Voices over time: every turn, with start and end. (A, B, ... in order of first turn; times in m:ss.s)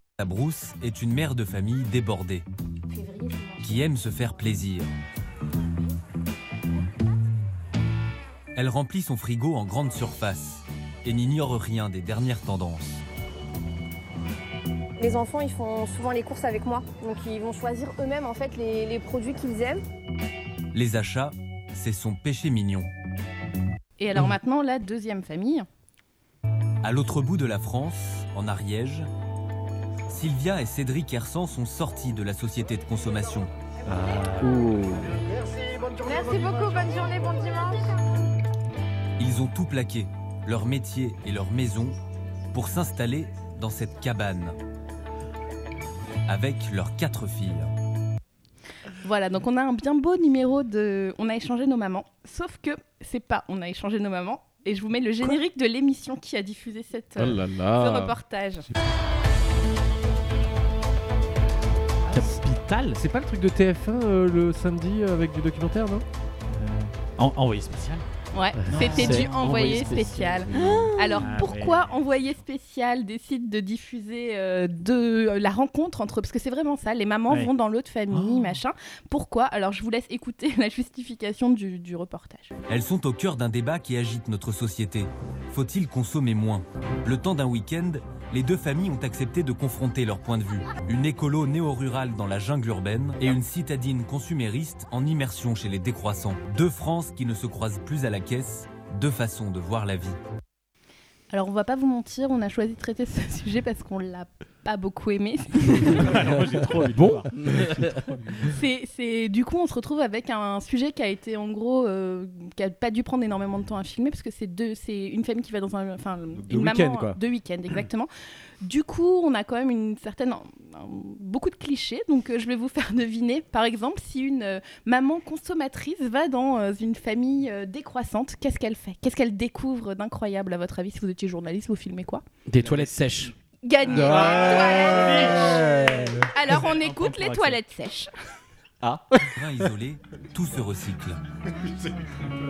0:00.2-0:02.4 A
0:02.9-0:03.9 B
0:03.6-0:05.0 A
0:08.6-0:13.0 A
0:15.0-0:19.8 B
0:20.7-0:22.9 A
0:24.0-0:25.7 C
0:26.8-0:29.1 A
0:30.1-0:33.5 A
0:33.9-0:35.1 D
0:34.4-0:35.1 E
0:36.0-0:37.9 B
0:39.2-0:42.0 A
0:42.5-0:44.6 A
0:46.3-0:47.7 A
0:49.0-0:58.7 C
0:57.2-0:58.2 E
1:02.1-1:03.0 F
1:03.0-1:06.0 D
1:06.6-1:06.9 D
1:07.2-1:08.1 F
1:08.3-1:22.5 C
1:08.7-1:10.4 F
1:08.8-1:10.8 E
1:11.2-1:12.2 F
1:18.1-1:18.4 F
1:22.7-1:40.2 A
1:41.3-1:46.1 C
1:45.8-1:47.9 F
1:47.0-1:47.3 D
1:47.3-1:48.0 E
1:48.5-1:58.1 C
1:56.4-1:57.2 D
1:58.6-2:12.2 C
2:12.5-2:13.3 E
2:12.6-2:13.1 F
2:13.6-2:18.1 C
2:13.9-2:16.3 D
2:14.3-2:15.5 F
2:16.5-2:17.6 F
2:18.8-2:19.3 D
2:19.3-2:21.2 A